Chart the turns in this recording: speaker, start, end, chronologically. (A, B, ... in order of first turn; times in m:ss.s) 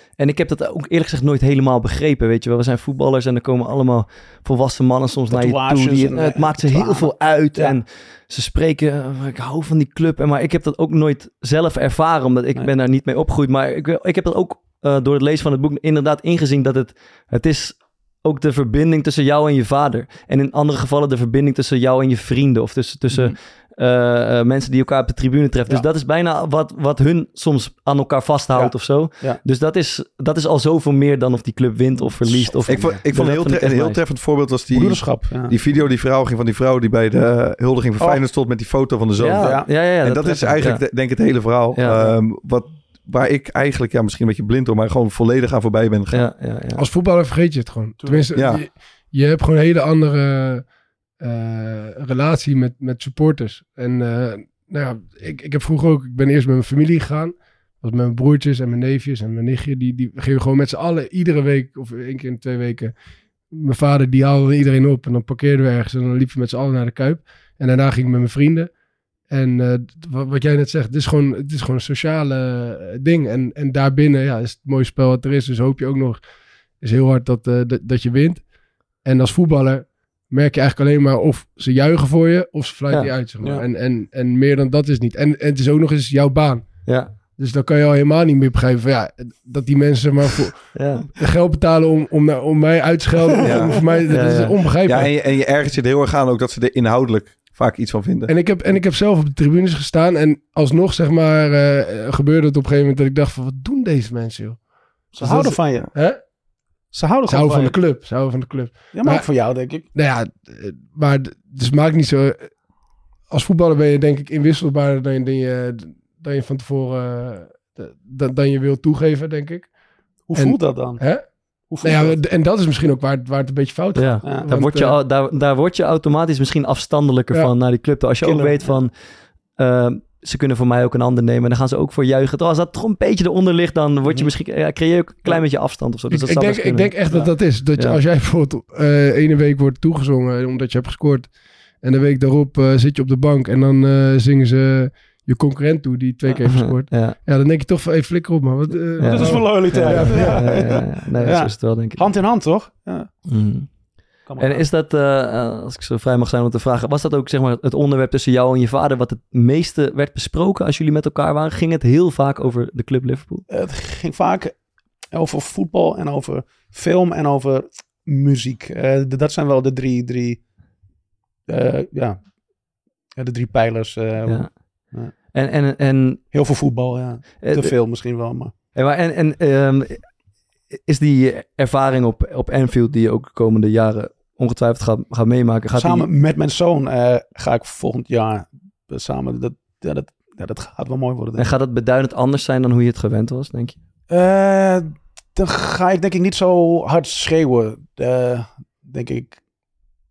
0:00.2-0:34.0 A
0:05.3-0:07.8 B
0:28.6-0:29.4 B
0:32.1-0:33.0 B
0:32.7-0:46.3 C
0:34.7-0:35.6 B
0:38.0-0:38.2 B
0:39.2-0:40.8 A
0:39.4-0:39.7 B
0:41.8-0:42.2 A
0:46.1-0:46.8 A
0:46.8-0:50.7 D
0:48.0-0:48.3 B
0:48.4-0:48.6 C
0:51.2-1:02.9 D
1:03.5-1:08.7 D
1:09.3-1:16.2 D
1:16.8-1:18.4 D
1:19.0-1:26.8 D
1:26.9-1:27.1 A
1:27.4-1:35.1 D
1:30.8-1:31.1 A
1:33.4-1:33.8 C
1:34.1-1:34.6 A
1:34.8-1:38.3 C
1:38.3-1:44.6 D
1:45.1-1:45.9 B
1:45.2-1:46.2 D
1:46.9-1:47.8 B
1:47.3-1:49.3 D
1:48.9-1:49.8 B
1:49.9-1:52.5 D
1:53.3-1:59.7 D
2:00.3-2:01.0 B
2:00.4-2:01.2 D
2:01.7-2:02.2 B
2:01.8-2:05.0 D
2:04.0-2:08.9 A
2:08.2-2:08.8 B
2:09.6-2:16.9 A
2:16.1-2:21.3 D
2:21.8-2:30.7 D
2:26.5-2:27.2 A
2:29.0-2:32.1 A
2:29.0-2:33.1 B
2:33.3-2:33.7 A
2:34.2-2:43.5 A
2:34.3-2:34.7 B
2:43.5-2:44.5 B
2:45.1-2:50.4 B
2:51.5-2:52.2 B
2:53.2-2:55.1 B
2:54.3-2:54.5 A
2:55.3-2:56.2 A
2:56.3-2:58.5 B
2:57.4-2:57.7 A
2:58.8-3:00.1 A
3:00.9-3:06.1 A
3:05.8-3:11.5 B
3:11.4-3:13.8 A
3:14.1-3:19.4 B